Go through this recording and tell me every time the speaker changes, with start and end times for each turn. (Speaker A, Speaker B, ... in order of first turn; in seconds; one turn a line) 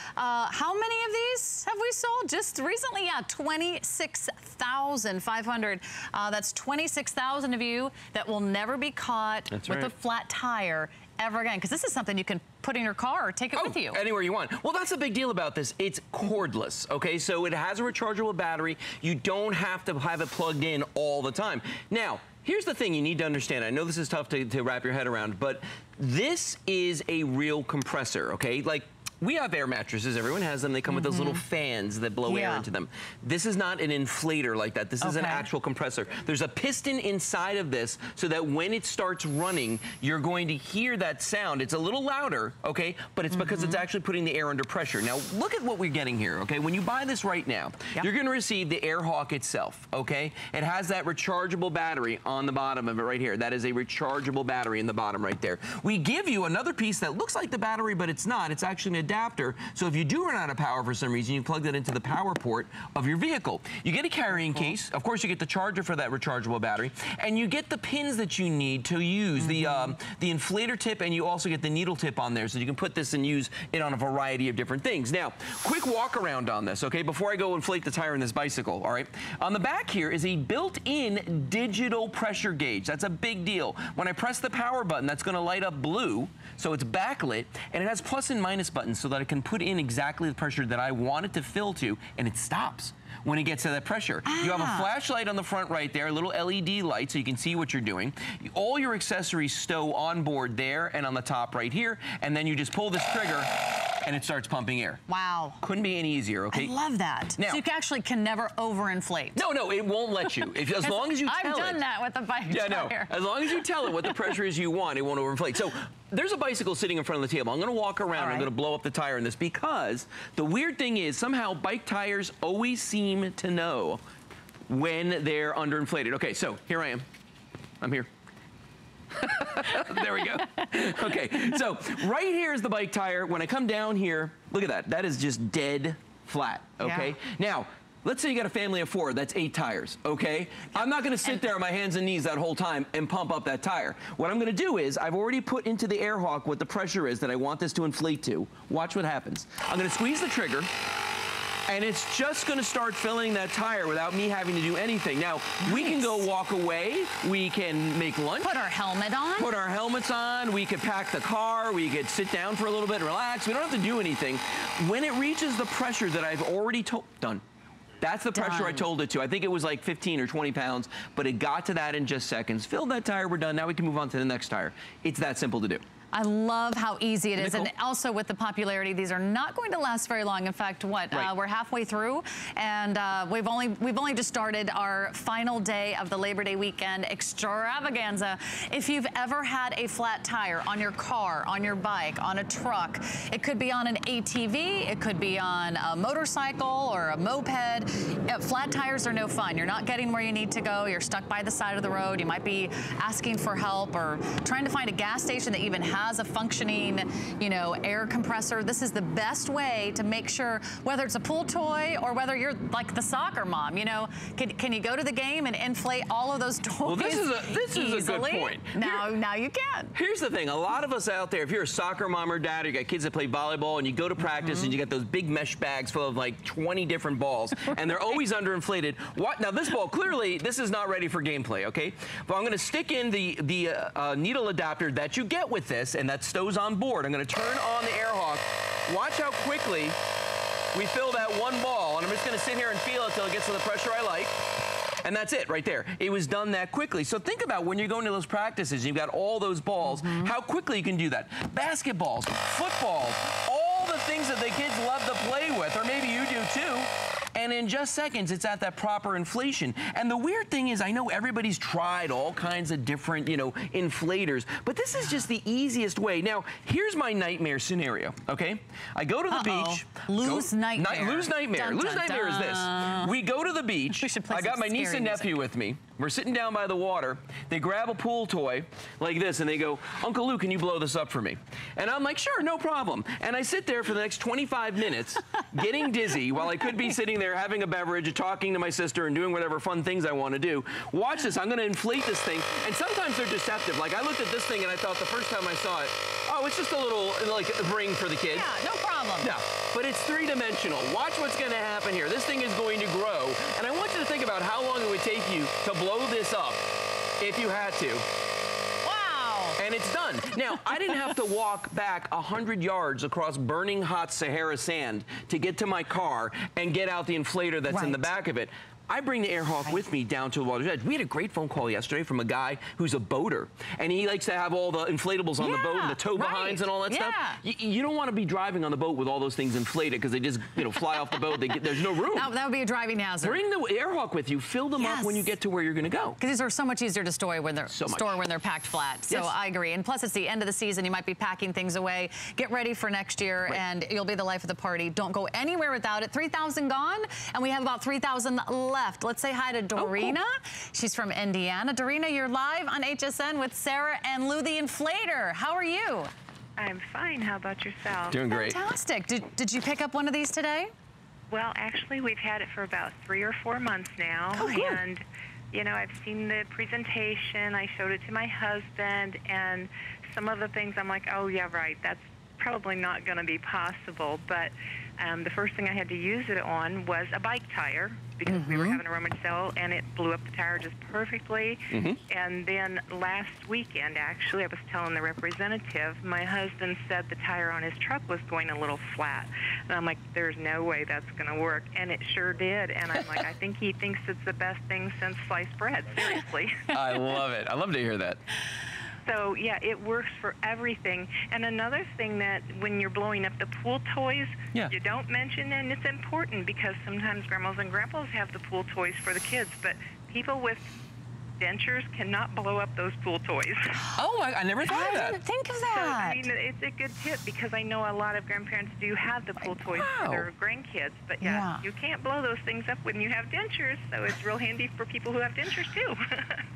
Speaker A: 0.2-14.0
Speaker B: 9.5-9.9
Speaker B: 13.6-105.0
Speaker A: 30.9-31.4
Speaker A: 32.2-32.6
Speaker A: 35.0-35.5
Speaker A: 43.3-43.8
Speaker A: 64.4-64.7
Speaker A: 69.4-70.0
Speaker A: 94.3-94.9
Speaker A: 105.1-105.6
Speaker B: 105.6-106.7
Speaker A: 106.5-109.4
Speaker B: 107.4-107.6
Speaker B: 109.3-111.8
Speaker A: 110.7-114.1
Speaker B: 112.5-124.0
Speaker A: 118.1-118.5
Speaker B: 124.7-127.0
Speaker B: 127.8-128.1
Speaker B: 129.2-150.7
Speaker A: 136.8-137.1
Speaker A: 140.8-141.4
Speaker B: 151.7-158.6
Speaker A: 155.7-156.2
Speaker A: 158.4-159.5
Speaker B: 159.4-167.4
Speaker B: 168.0-175.8
Speaker A: 168.3-168.9
Speaker A: 176.1-219.9
Speaker B: 177.4-177.7
Speaker B: 216.8-219.1
Speaker B: 219.9-240.0
Speaker A: 224.4-224.7
Speaker B: 240.7-244.4
Speaker B: 245.0-298.5
Speaker A: 249.8-250.3
Speaker A: 269.3-273.1
Speaker A: 273.9-275.3
Speaker A: 298.3-299.4
Speaker B: 299.2-306.7
Speaker B: 307.2-308.1
Speaker A: 308.8-309.6
Speaker B: 309.6-332.3
Speaker A: 317.7-318.1
Speaker A: 325.4-327.4
Speaker A: 332.1-333.4
Speaker B: 333.2-336.2
Speaker A: 334.8-335.3
Speaker A: 336.2-356.1
Speaker B: 337.7-338.2
Speaker B: 339.1-339.3
Speaker B: 349.8-350.2
Speaker C: 356.6-358.3
Speaker B: 358.1-358.6
Speaker A: 358.3-360.7
Speaker C: 361.3-396.7
Speaker A: 364.3-364.8
Speaker A: 378.3-378.8
Speaker B: 381.7-382.0
Speaker B: 396.7-398.2
Speaker C: 399.1-410.7
Speaker C: 411.4-413.8
Speaker B: 413.9-415.2
Speaker A: 414.7-416.3
Speaker C: 415.6-426.4
Speaker A: 419.4-419.8
Speaker B: 419.8-420.3
Speaker A: 421.2-421.6